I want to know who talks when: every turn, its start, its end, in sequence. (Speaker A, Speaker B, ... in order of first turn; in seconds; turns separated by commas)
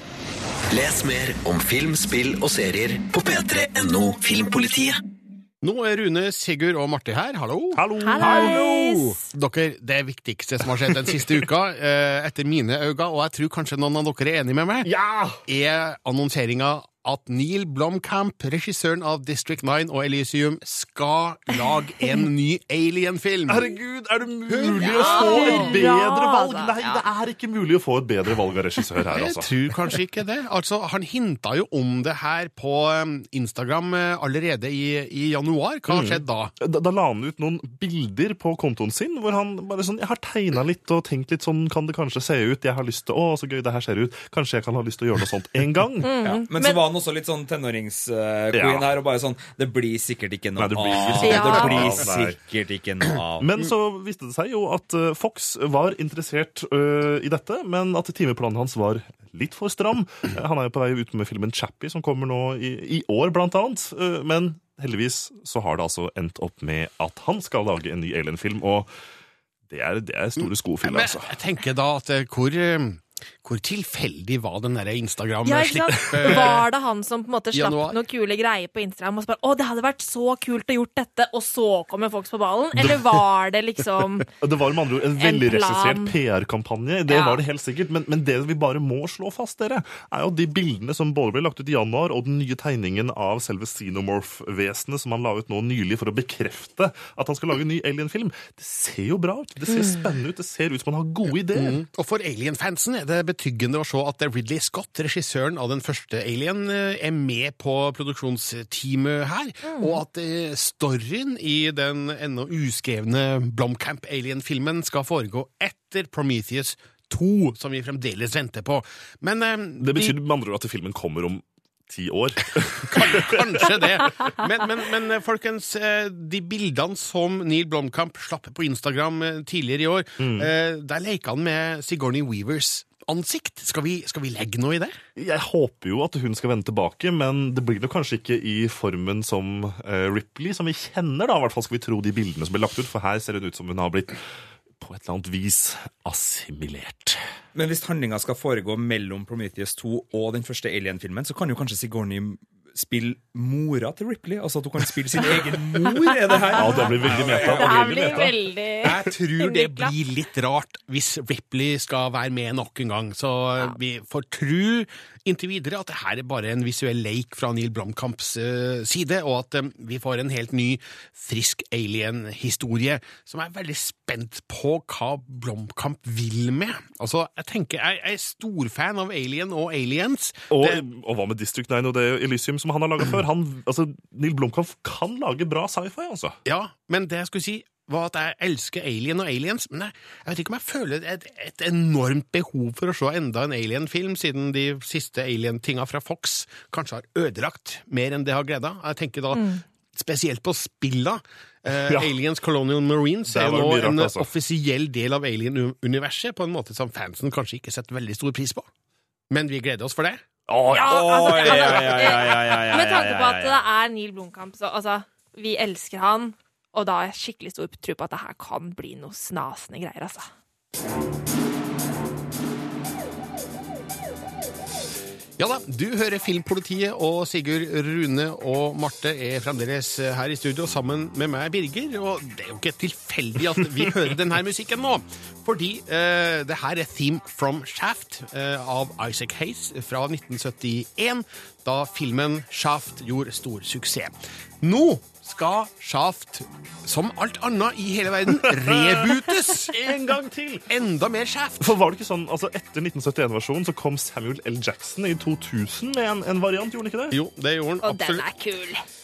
Speaker A: 0.7-5.0, Speaker B: 5.6-14.9, Speaker C: 7.8-8.8, Speaker D: 8.0-9.3, Speaker C: 14.8-15.4, Speaker B: 15.5-23.7, Speaker C: 23.5-29.5, Speaker B: 24.5-25.8, Speaker D: 24.8-27.0, Speaker B: 29.1-36.5, Speaker C: 35.9-46.1, Speaker D: 46.0-46.8, Speaker E: 46.2-53.5, Speaker C: 48.5-48.9, Speaker C: 50.6-52.4, Speaker D: 51.1-51.9, Speaker C: 53.4-68.9, Speaker C: 69.7-71.4, Speaker B: 70.8-76.7, Speaker D: 75.5-84.3, Speaker B: 77.5-78.0, Speaker C: 84.4-101.8, Speaker D: 85.2-86.1, Speaker D: 87.1-87.4, Speaker B: 101.4-120.1, Speaker D: 109.6-110.0, Speaker C: 119.8-123.8, Speaker B: 122.8-135.0, Speaker C: 130.2-130.5, Speaker C: 135.2-144.2, Speaker C: 144.8-147.2, Speaker E: 147.6-158.3, Speaker D: 156.1-159.9, Speaker C: 156.6-158.3, Speaker E: 158.9-159.1, Speaker B: 158.9-180.8, Speaker C: 180.5-186.4, Speaker B: 186.4-208.7, Speaker D: 199.3-199.6, Speaker C: 201.7-202.2, Speaker C: 203.3-204.3, Speaker B: 209.3-210.3, Speaker C: 210.5-211.6, Speaker D: 210.8-220.3, Speaker E: 210.9-213.6, Speaker B: 225.4-249.9, Speaker C: 248.5-250.7, Speaker B: 250.7-251.7, Speaker C: 251.6-257.2, Speaker B: 257.1-258.3, Speaker D: 257.8-258.8